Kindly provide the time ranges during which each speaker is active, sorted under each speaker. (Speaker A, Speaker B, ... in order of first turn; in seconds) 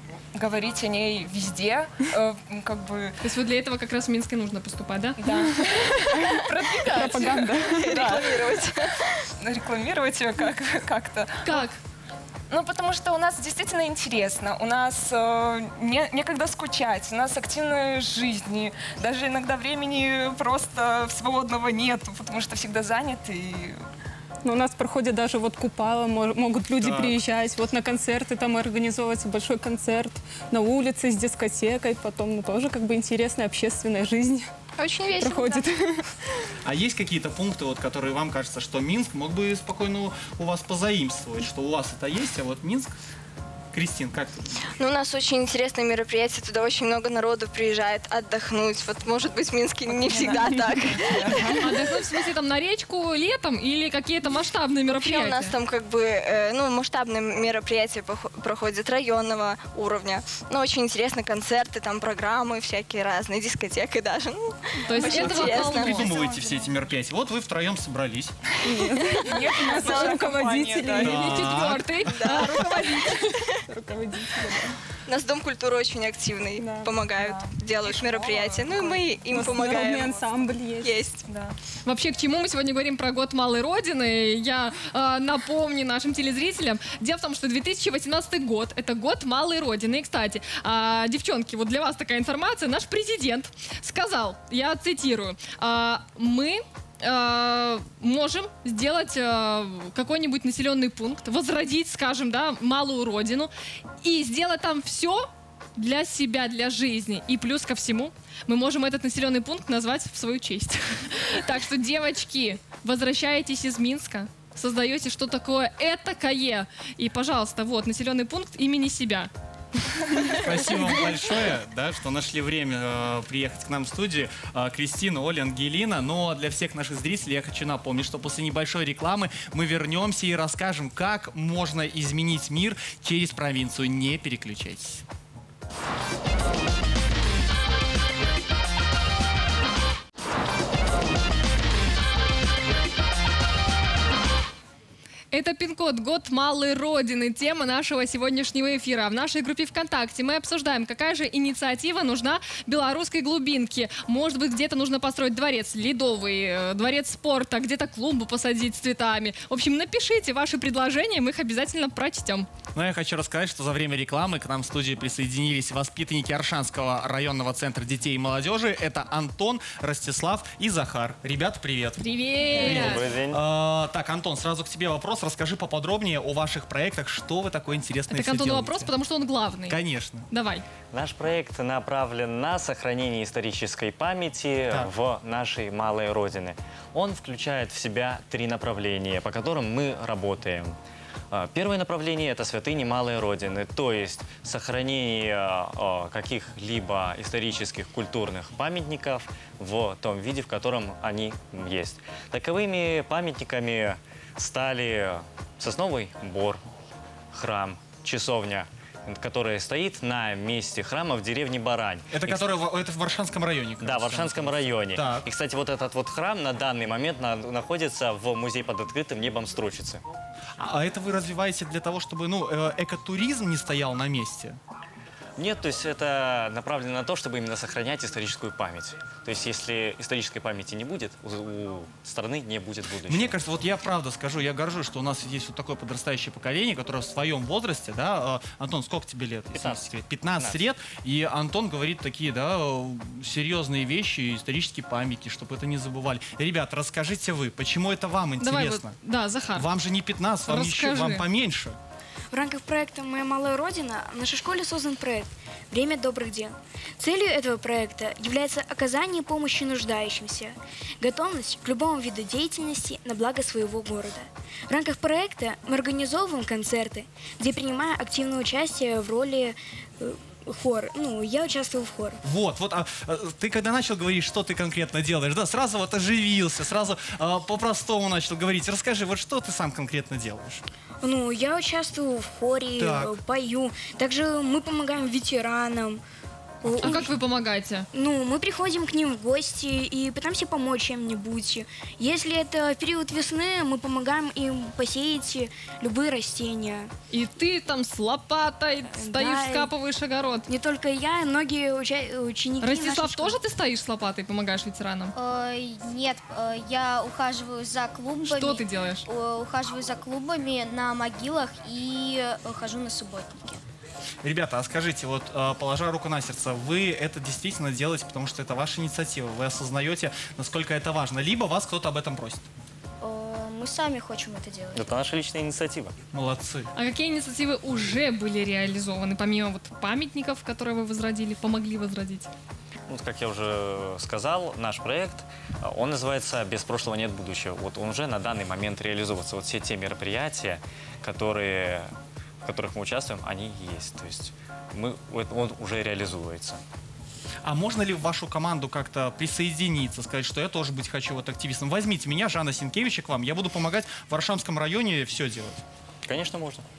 Speaker A: 0.3-3.2, 5.2-8.7, 9.4-11.7, 12.5-23.8, 49.9-51.7, 69.3-71.2
Speaker B: 3.2-5.7, 6.3-7.0, 11.4-11.8, 51.6-55.5, 64.8-66.4, 71.1-73.3, 81.9-103.5, 104.0-119.3, 119.9-120.5, 145.3-162.5, 172.0-173.1, 178.1-179.8, 180.3-180.7, 248.4-249.7, 250.5-251.2, 286.8-287.9, 297.1-300.4, 302.6-305.1, 308.3-309.1, 326.8-332.3
Speaker C: 6.2-8.2, 24.4-34.5, 35.2-36.0, 68.6-74.8, 76.6-80.9
Speaker D: 7.7-8.7, 34.8-35.7, 44.8-51.5, 55.0-66.1, 69.8-70.3, 72.1-72.5, 75.1-81.3
Speaker E: 26.8-27.2, 36.6-42.9, 43.7-44.5, 65.0-68.3, 71.0-72.3, 120.4-135.0, 162.8-178.9, 179.7-180.3, 212.1-215.3, 220.6-224.6, 233.1-248.9, 249.6-251.8, 272.2-280.6, 282.8-283.2, 286.6-287.1, 314.2-322.5, 326.1-326.7, 347.4-355.6
Speaker F: 172.6-173.4, 180.9-190.8, 191.3-206.6, 207.3-212.4, 213.8-220.0, 225.4-233.4, 239.5-240.7, 324.7-326.0, 332.9-341.9, 342.4-346.6, 356.1-356.6
Speaker G: 252.3-272.2, 281.0-286.0, 286.6-287.1, 287.9-296.9, 298.9-299.7, 300.5-303.4
Speaker H: 305.1-313.6, 323.0-324.9